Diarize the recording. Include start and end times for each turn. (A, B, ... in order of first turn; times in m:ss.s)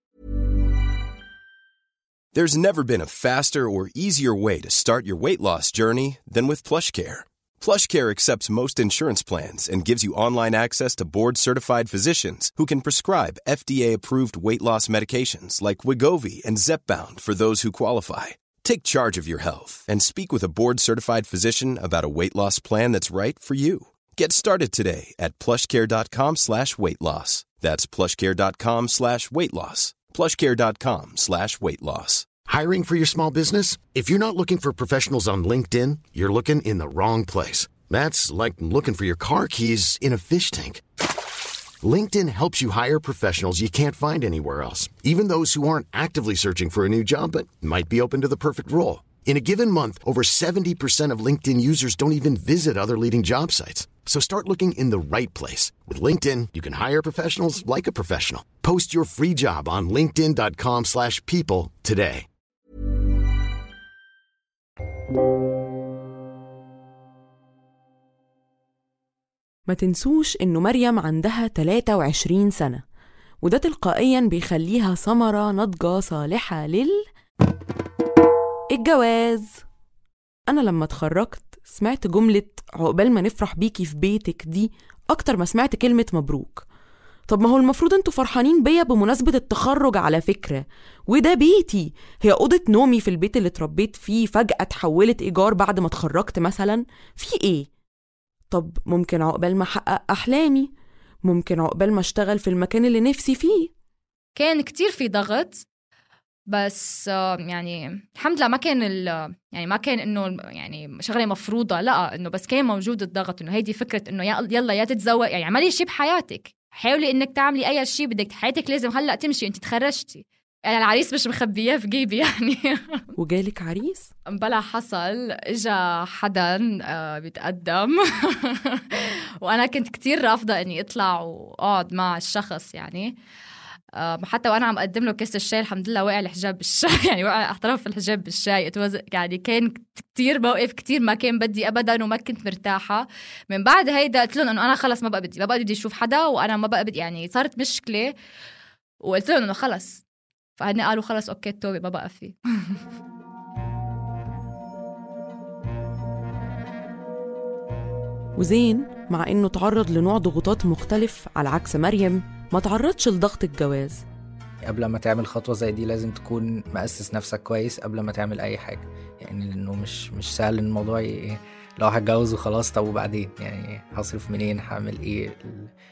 0:02.3-0:32.3 A
0:32.4-0:40.8 B
0:41.8-1:02.2 B
1:09.7-1:12.8 C
1:13.4-1:17.0 C
1:18.7-1:19.6 C
1:20.5-1:26.6 C
1:27.3-1:37.7 C
1:38.5-1:40.7 C
1:41.2-1:43.7 C
1:44.4-1:45.6 D
1:46.5-2:03.0 D
2:03.2-2:04.1 C
2:04.3-2:13.1 D
2:14.0-2:28.1 D
2:29.0-2:30.0 D
2:30.6-2:32.8 D
2:38.4-2:44.0 C
2:44.6-2:55.7 E